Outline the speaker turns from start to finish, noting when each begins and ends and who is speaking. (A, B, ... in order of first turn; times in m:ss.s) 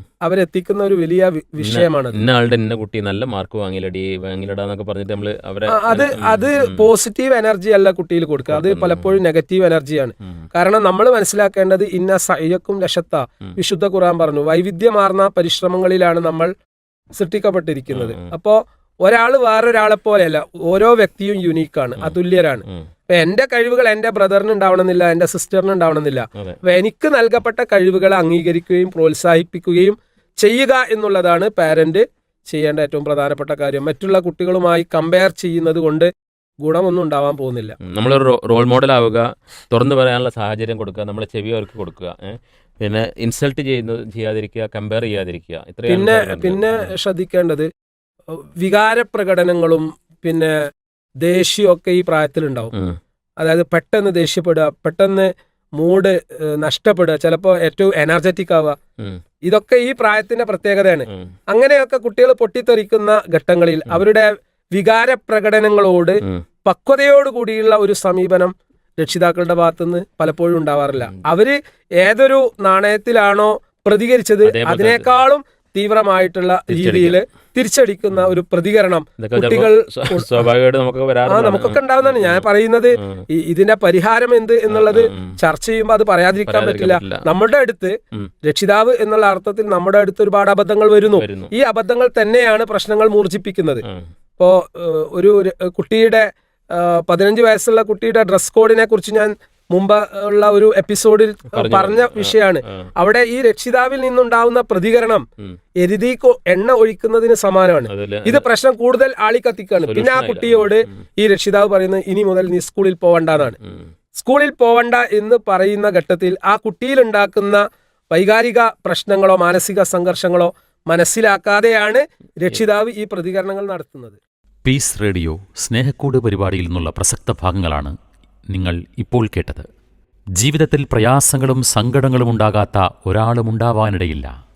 0:00.2-0:02.2 A
0:01.6-0:06.9 B
0:05.7-0:16.5 A
0:08.5-0:09.1 B
0:17.2-0:36.1 A
0:17.9-0:18.3 B
0:36.6-0:37.8 A
0:37.8-0:46.9 B
0:45.9-0:47.7 A
0:48.3-0:50.5 A
0:51.2-0:52.7 A
0:53.4-0:58.8 A
0:59.4-1:20.3 A
1:14.4-1:15.1 B
1:16.7-1:17.2 B
1:19.2-1:22.4 B
1:21.3-1:33.8 A
1:23.0-1:23.2 B
1:24.7-1:25.4 B
1:26.4-1:27.2 B
1:31.1-1:31.5 B
1:34.4-1:45.2 A
1:41.5-1:42.9 B
1:45.8-1:53.6 A
1:47.9-1:48.4 B
1:49.8-1:50.8 B
1:53.6-1:53.9 B
1:54.2-1:57.6 A
1:58.1-2:04.2 A
2:04.6-2:07.9 C
2:08.5-2:09.7 C
2:10.4-2:14.3 C